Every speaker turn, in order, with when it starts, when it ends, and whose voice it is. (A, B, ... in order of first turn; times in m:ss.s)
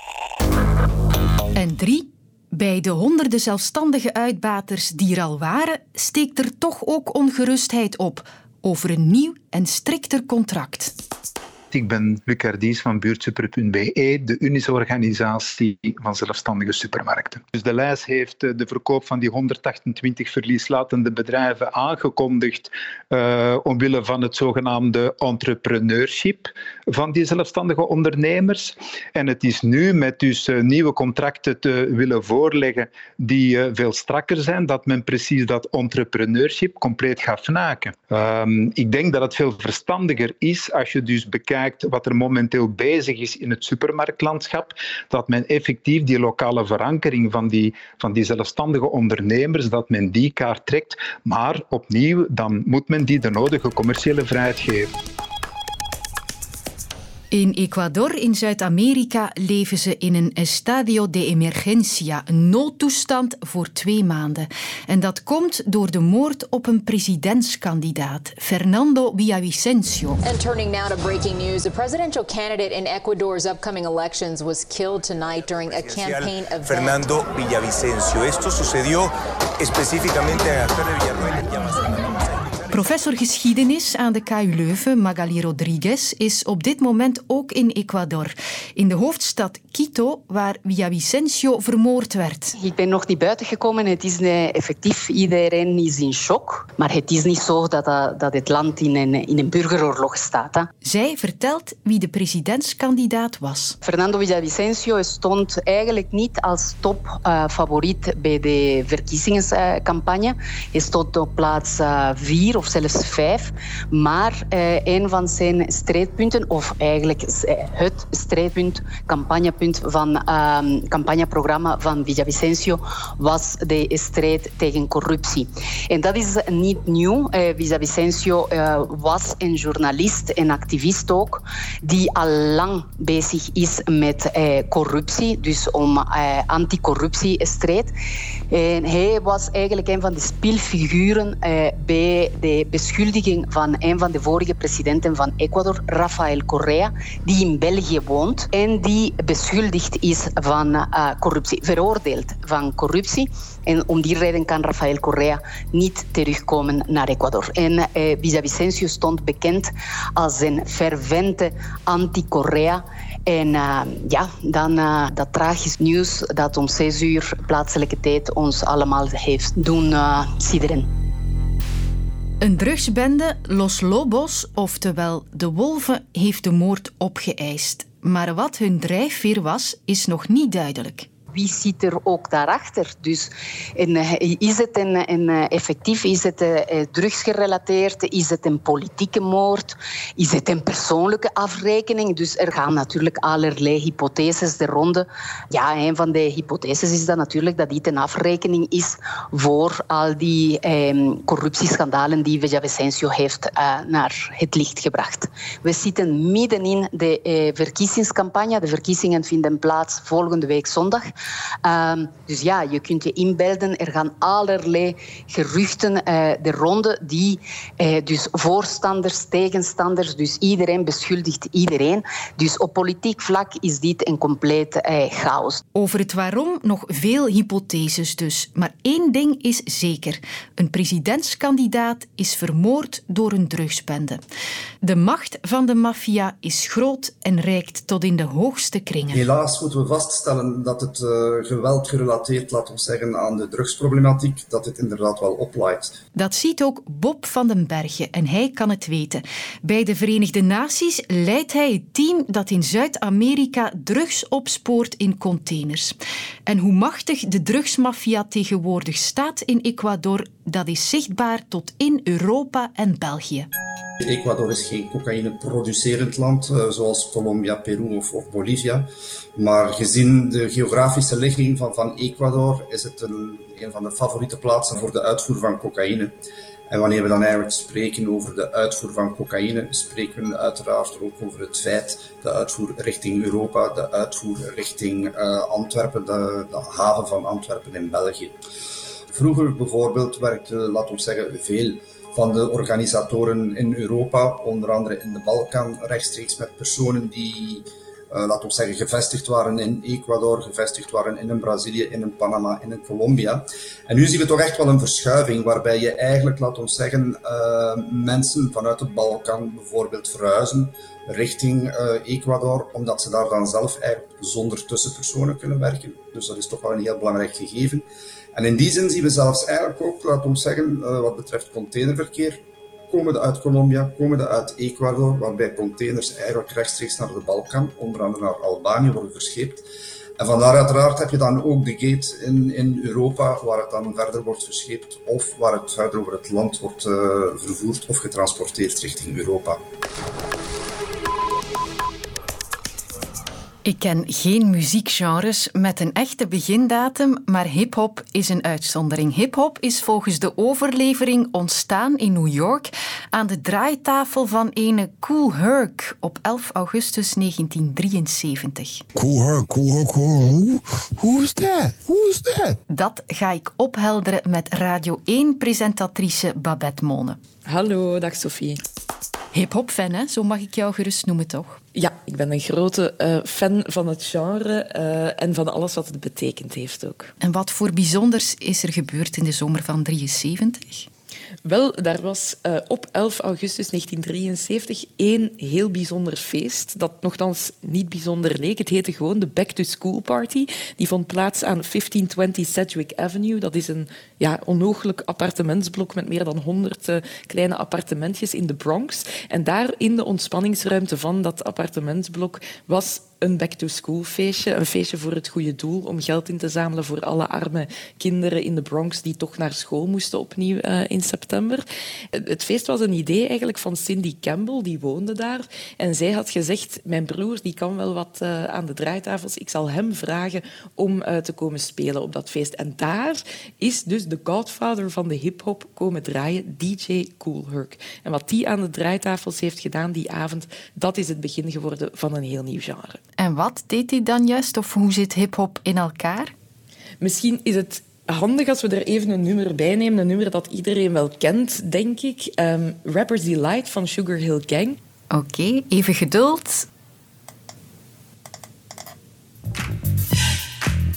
0:01.5-0:10.9 A
0:11.7-0:54.9 B
0:57.3-1:10.2 A
1:10.2-1:17.0 C
1:15.5-1:22.7 D
1:22.7-1:32.6 A
1:32.6-1:40.7 E
1:40.8-1:43.8 A
1:43.8-2:17.9 E
2:18.5-2:50.9 E
2:52.4-3:01.1 A
3:01.3-3:31.0 E
3:31.6-3:45.6 E
3:45.7-3:54.2 A
3:54.8-3:59.2 A
3:59.1-4:05.9 F
4:06.1-4:15.9 A
4:16.4-4:23.5 A
4:24.0-4:36.1 F
4:36.7-4:48.4 F
4:49.1-5:29.6 F
5:30.2-5:39.6 F
5:43.6-5:58.8 A
5:59.0-6:02.5 G
6:02.7-6:07.2 A
6:07.4-6:08.6 H
6:09.3-6:11.6 A
6:11.7-6:17.1 H
6:17.2-6:20.9 A
6:21.4-7:13.0 H
7:13.2-7:16.3 A
7:17.0-7:24.8 H
7:25.1-7:26.7 A